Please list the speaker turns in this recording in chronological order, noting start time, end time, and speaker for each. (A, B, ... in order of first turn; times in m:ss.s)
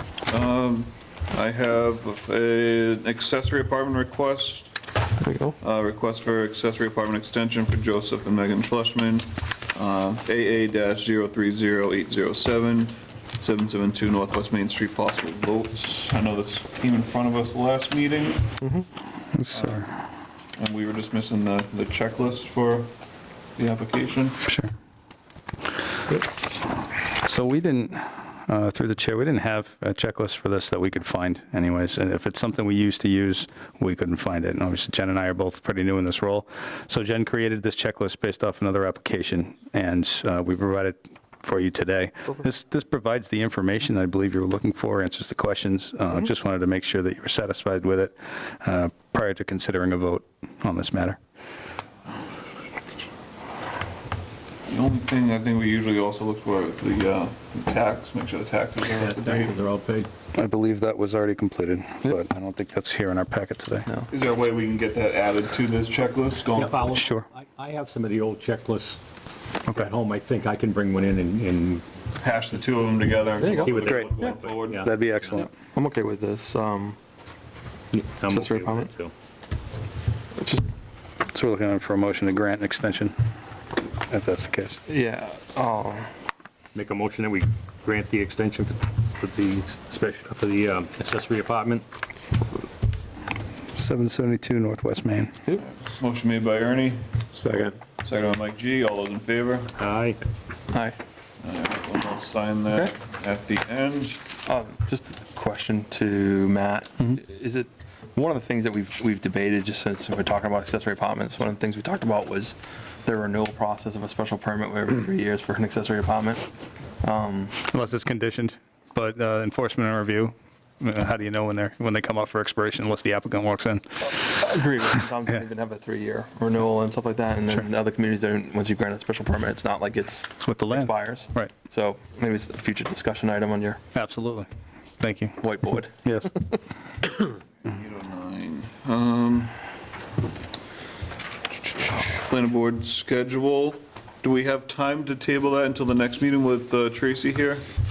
0:00.3-0:04.8 A
0:05.2-0:05.6 B
0:05.6-0:18.6 A
0:18.6-0:18.9 B
0:19.3-0:19.9 C
0:19.5-0:19.8 A
0:20.6-0:22.9 A
0:23.6-0:24.4 A
0:24.4-0:24.7 C
0:27.1-0:51.2 C
0:54.7-0:59.6 A
0:59.2-1:00.1 D
1:00.3-1:03.9 C
1:04.1-1:07.0 A
1:06.5-1:09.1 D
1:06.9-1:07.3 C
1:09.7-1:11.8 D
1:12.2-1:14.8 A
1:13.4-1:14.4 B
1:13.4-1:15.4 D
1:14.7-1:15.5 C
1:15.3-1:17.0 B
1:17.9-1:19.1 D
1:18.3-1:18.9 B
1:20.4-1:20.7 B
1:21.3-1:23.2 C
1:24.1-1:24.8 C
1:24.9-1:26.1 B
1:26.8-1:31.9 D
1:33.8-1:35.4 C
1:35.6-1:37.1 A
1:38.0-1:39.7 A
1:39.8-1:40.2 D
1:40.7-1:41.0 B
1:41.4-1:44.3 A
1:44.4-1:56.4 B
1:57.0-1:57.5 B
1:57.6-2:04.1 C
2:04.1-2:13.8 B
2:10.4-2:11.5 C
2:13.9-2:14.5 C
2:15.0-2:15.4 C
2:15.4-2:16.4 B
2:16.0-2:16.3 C
2:17.7-2:19.6 A
2:21.6-2:27.7 A